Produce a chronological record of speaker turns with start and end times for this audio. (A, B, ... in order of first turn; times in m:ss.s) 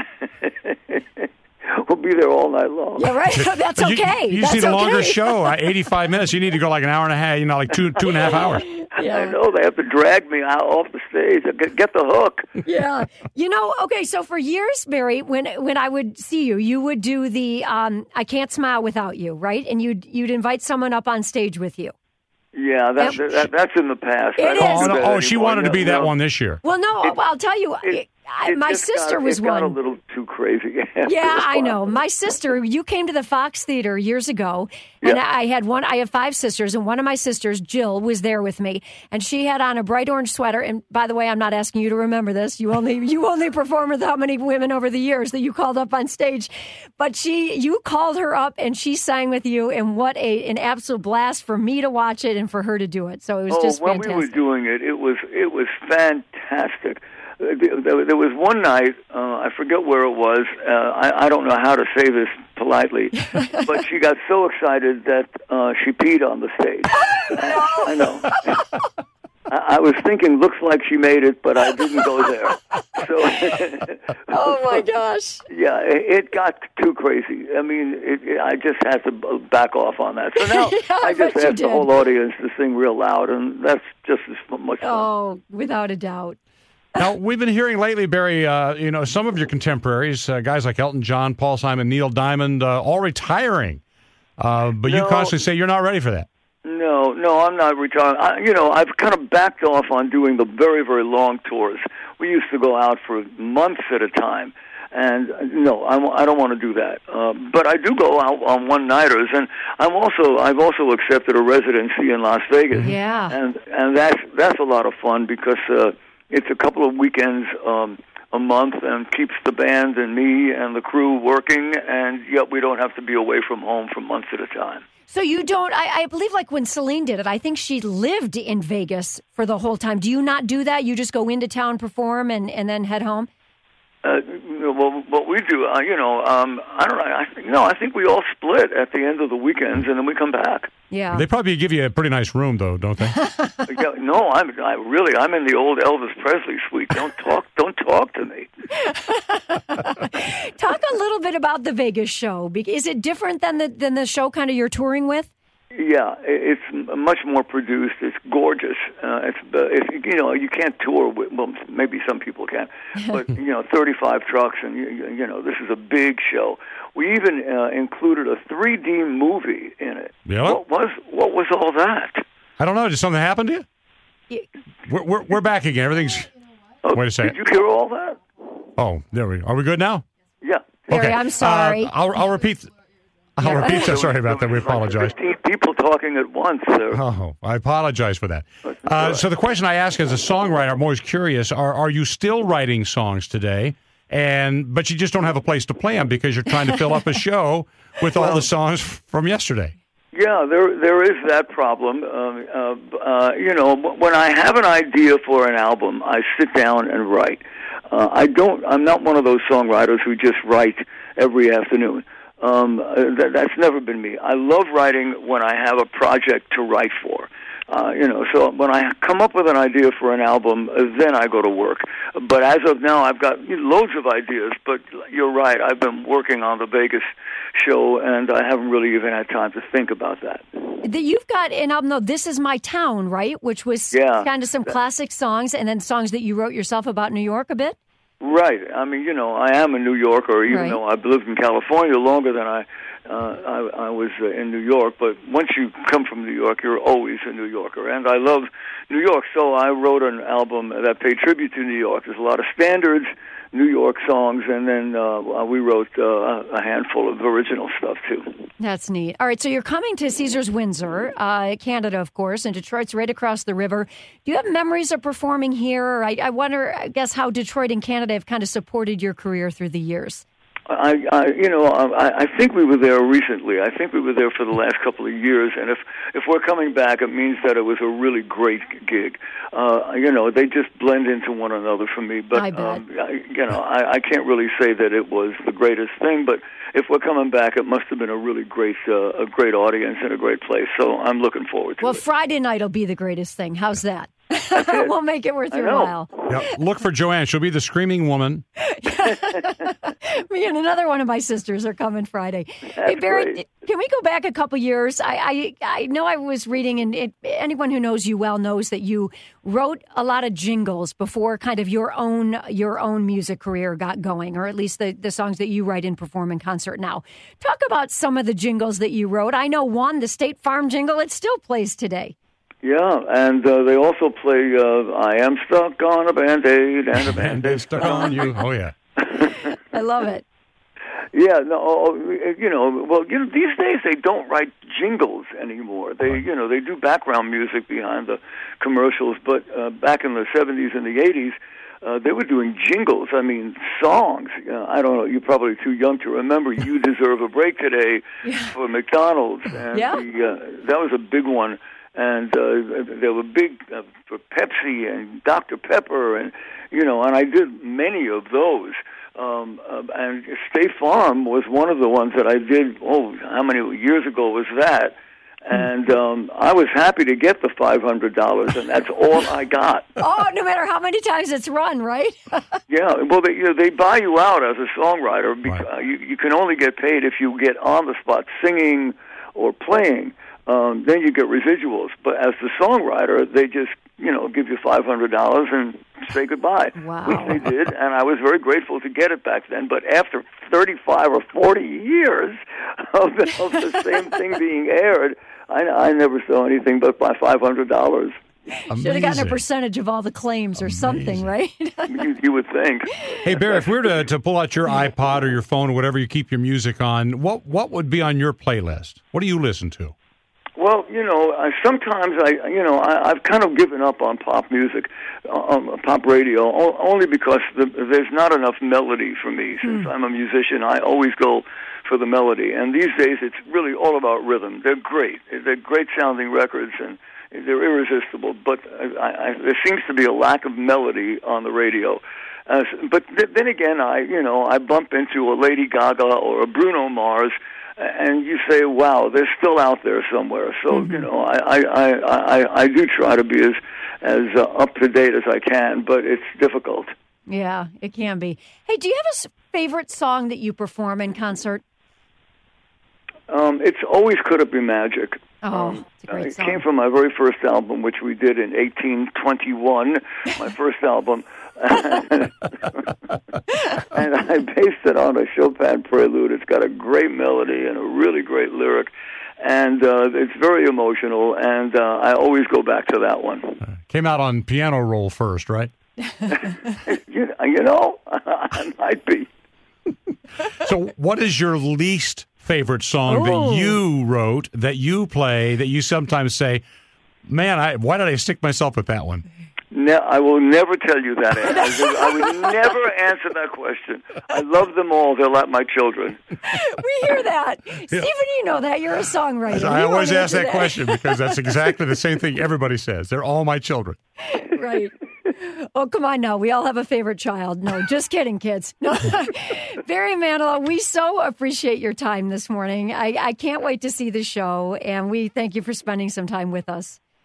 0:00.2-0:03.2 A
0:03.0-0:05.6 B
0:03.3-0:08.6 C
0:08.2-0:09.4 B
0:09.0-0:12.5 A
0:12.6-0:21.9 B
0:22.5-0:26.2 A
0:23.0-0:23.5 B
0:24.4-0:25.0 B
0:24.6-0:26.6 C
0:26.6-0:29.8 B
0:27.8-0:31.9 A
0:31.0-0:54.4 B
0:53.5-1:08.4 A
1:07.0-1:08.6 B
1:09.5-1:14.5 A
1:14.3-1:15.4 B
1:15.5-1:25.1 A
1:20.4-1:21.9 B
1:24.8-1:26.4 B
1:27.0-1:33.8 C
1:34.4-1:36.3 C
1:34.8-1:35.4 A
1:36.6-2:04.8 A
1:52.8-1:53.4 B
2:05.1-2:13.3 B
2:14.0-2:20.7 A
2:20.9-2:21.3 B
2:21.1-2:23.2 C
2:23.2-2:23.6 B
2:23.6-2:28.5 A
2:28.8-2:35.3 B
2:35.7-2:52.2 A
2:50.3-2:50.6 C
2:52.6-2:53.6 C
2:54.9-2:56.3 C
2:56.8-2:58.2 A
2:56.9-2:57.4 C
2:58.8-3:00.0 C
3:00.4-3:01.2 A
3:00.9-3:01.9 B
3:00.9-3:02.7 C
3:03.4-3:05.1 C
3:03.4-3:07.0 A
3:06.9-3:19.7 C
3:08.6-3:09.3 A
3:18.2-3:18.4 A
3:20.1-3:50.7 A
3:50.8-3:57.8 B
3:53.9-3:54.7 A
3:58.2-4:18.4 A
4:00.5-4:00.8 B
4:18.6-4:30.2 B
4:30.7-4:52.0 A
4:42.3-4:42.8 B
4:51.8-4:56.4 B
4:54.6-4:54.9 A
4:55.5-4:56.0 A
4:56.3-4:58.4 C
4:58.6-5:22.1 B
5:02.8-5:03.4 A
5:22.6-5:28.4 A
5:27.0-5:28.7 C
5:27.8-5:28.2 B
5:29.0-5:29.5 A
5:29.5-5:30.2 B
5:31.1-6:10.0 A
5:48.3-5:48.5 B
5:49.7-5:50.0 B
6:10.0-6:12.6 B
6:12.7-6:38.2 A
6:26.8-6:27.4 B
6:38.5-6:42.0 B
6:38.7-6:39.4 C
6:40.6-6:41.3 C
6:41.9-6:44.0 A
6:43.2-6:49.9 C
6:50.6-7:26.9 A
6:59.6-6:59.9 B
7:20.7-7:21.1 B
7:27.3-7:31.6 B
7:33.3-7:43.0 A
7:35.4-7:36.6 B
7:43.6-7:53.6 A
7:53.8-7:55.7 C
7:56.3-7:59.3 A
8:00.6-8:06.6 C
8:03.1-8:03.8 B
8:07.3-8:09.2 C
8:09.7-8:16.2 A
8:11.6-8:12.4 B
8:16.4-8:21.5 B
8:19.5-8:24.0 C
8:24.2-8:37.0 B